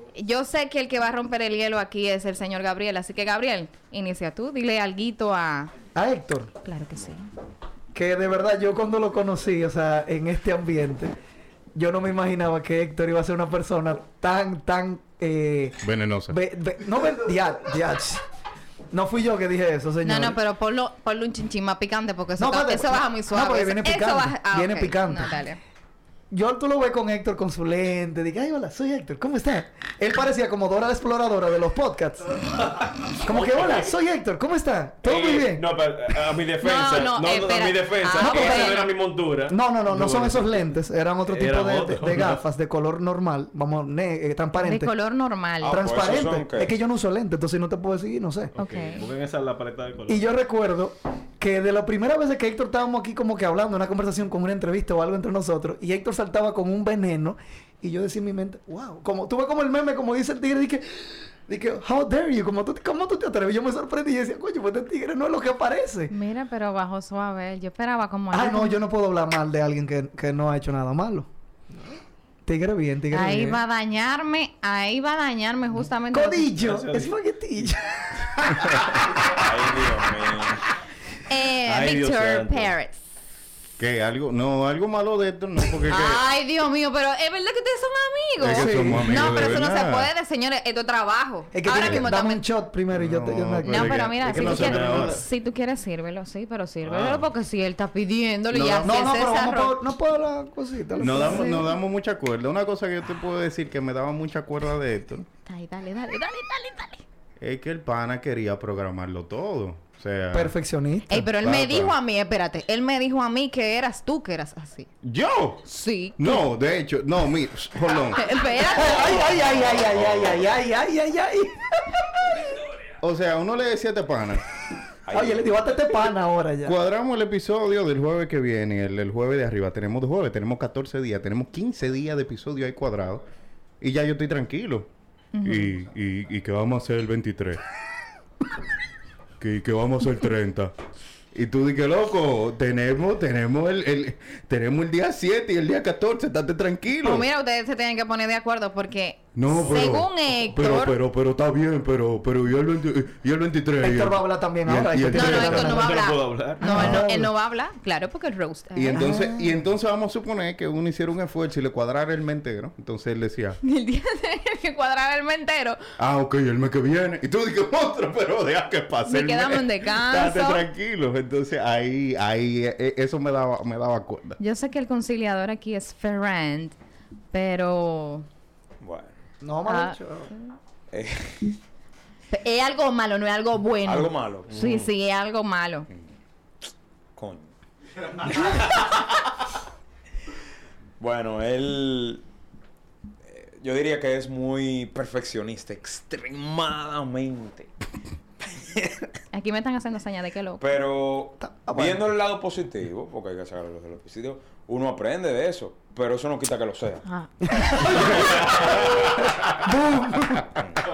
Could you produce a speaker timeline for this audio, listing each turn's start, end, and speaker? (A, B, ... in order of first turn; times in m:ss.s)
0:00.1-0:05.7 A
0:05.9-0:06.5 B
0:06.6-0:07.3 A
0:07.9-0:11.1 B
0:11.7-0:18.2 B
0:15.8-0:16.4 C
0:18.9-0:20.4 B
0:20.0-0:25.6 A
0:22.4-0:25.4 B
0:26.3-0:32.4 B
0:32.4-0:34.0 D
0:33.2-0:35.6 B
0:35.0-0:40.7 D
0:36.6-0:38.9 A
0:38.2-0:38.8 B
0:39.5-0:44.9 B
0:41.3-0:42.4 D
0:44.6-0:45.9 A
0:45.6-0:46.8 E
0:45.6-0:48.5 B
0:48.6-0:50.3 D
0:48.6-0:49.0 A
0:50.1-1:06.1 B
1:06.1-1:08.8 A
1:08.3-1:11.3 B
1:11.7-1:12.0 D
1:12.4-1:13.6 B
1:13.1-1:16.5 A
1:16.1-1:18.8 B
1:16.6-1:17.1 D
1:19.2-1:20.6 E
1:21.3-1:23.0 A
1:21.6-1:22.7 D
1:23.8-1:26.2 C
1:25.9-1:32.4 A
1:28.4-1:30.1 C
1:28.5-1:29.6 B
1:31.5-1:35.2 B
1:31.8-1:32.1 C
1:32.9-1:35.2 C
1:33.6-1:39.8 A
1:34.3-1:35.2 D
1:36.8-1:37.3 D
1:38.5-1:39.0 C
1:38.8-1:41.7 B
1:41.0-1:41.7 A
1:41.0-1:45.3 C
1:45.4-1:47.0 A
1:47.4-1:50.6 C
1:50.3-1:51.3 B
1:51.1-1:54.9 A
1:51.4-1:51.9 C
1:55.0-1:55.6 C
1:55.6-1:56.5 A
1:56.2-1:58.3 C
1:58.1-1:59.4 A
1:58.6-2:02.4 B
1:59.9-2:00.4 E
2:03.0-2:04.4 C
2:05.1-2:05.8 E
2:05.1-2:06.8 B
2:06.6-2:13.2 C
2:13.8-2:14.9 C
2:15.3-2:15.8 A
2:15.4-2:17.6 C
2:19.4-2:20.7 C
2:21.3-2:27.3 C
2:27.0-2:31.0 A
2:29.3-2:35.8 C
2:33.8-2:35.9 B
2:35.1-2:39.1 A
2:35.5-2:36.6 D
2:36.6-2:37.3 B
2:36.7-2:37.0 C
2:38.7-2:43.6 C
2:38.9-2:39.6 B
2:43.6-2:45.8 A
2:46.0-2:54.4 C
2:49.0-2:50.6 A
2:54.4-2:56.7 A
2:57.3-2:58.3 A
2:58.8-2:59.1 E
2:59.4-3:00.3 B
2:59.7-3:00.6 A
3:00.9-3:01.5 E
3:02.3-3:05.9 A
3:03.8-3:04.5 E
3:04.5-3:04.9 D
3:07.2-3:07.5 E
3:08.5-3:08.9 E
3:11.0-3:12.2 E
3:13.3-3:17.7 E
3:19.3-3:20.6 A
3:20.6-3:27.0 E
3:21.4-3:22.1 B
3:27.0-3:28.3 A
3:27.5-3:28.9 B
3:28.3-3:28.8 E
3:29.6-3:30.5 B